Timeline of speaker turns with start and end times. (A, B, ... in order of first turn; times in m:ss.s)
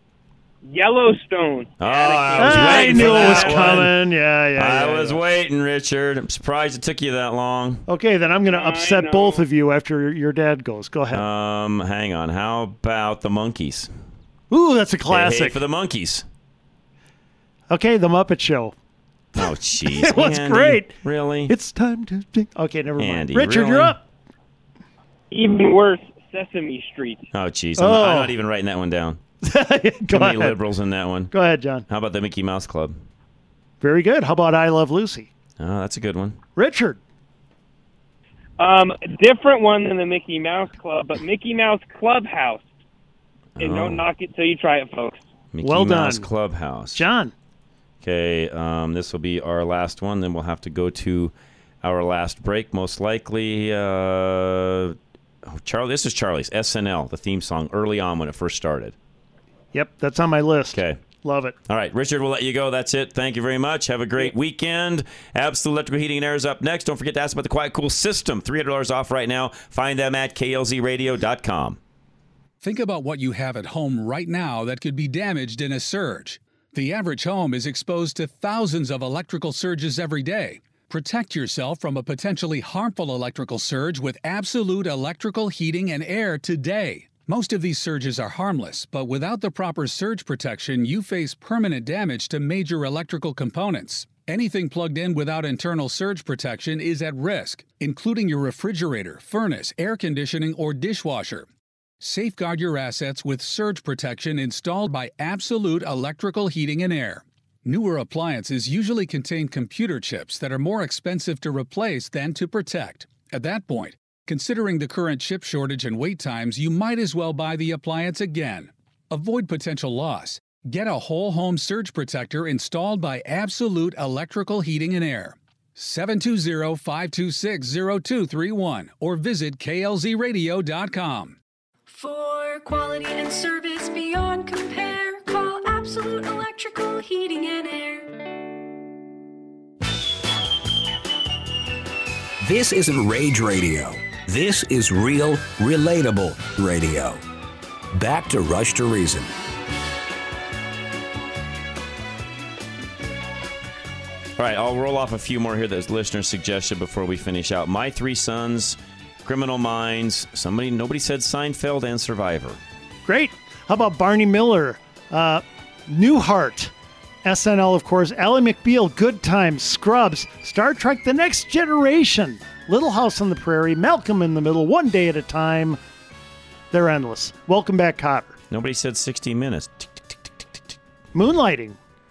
0:00.6-0:03.9 A
0:01.8-0:04.0 B
0:02.4-0:05.2 C
0:04.6-0:07.8 B
0:07.9-0:11.2 C
0:08.5-0:09.4 A
0:11.1-0:13.9 B
0:14.5-0:15.6 C
0:15.1-0:16.2 B
0:17.7-0:18.8 C
0:19.3-0:20.9 C
0:19.4-0:21.5 B
0:21.5-0:24.0 C
0:23.0-0:24.0 B
0:25.3-0:27.2 A
0:27.3-0:29.2 B
0:27.8-0:28.3 C
0:29.4-0:30.6 C
0:30.1-0:31.3 B
0:31.3-0:31.8 C
0:31.9-0:33.0 B
0:33.8-0:35.3 C
0:35.6-0:36.4 B
0:36.6-0:37.0 C
0:38.6-0:42.7 A
0:43.6-0:44.0 B
0:43.6-0:45.2 A
0:45.5-0:47.1 B
0:45.6-0:46.3 C
0:46.9-0:47.3 C
0:48.0-0:58.9 B
0:59.7-1:01.6 C
1:01.7-1:11.8 B
1:12.6-1:41.5 D
1:42.0-2:11.4 D
2:11.9-2:18.1 E
2:22.4-2:27.2 F
2:27.9-2:29.3 F
2:34.4-2:42.6 B
2:43.1-2:46.7 C
2:47.2-2:55.8 C
2:56.7-2:58.4 C
2:58.5-3:00.2 B
3:01.1-3:01.8 C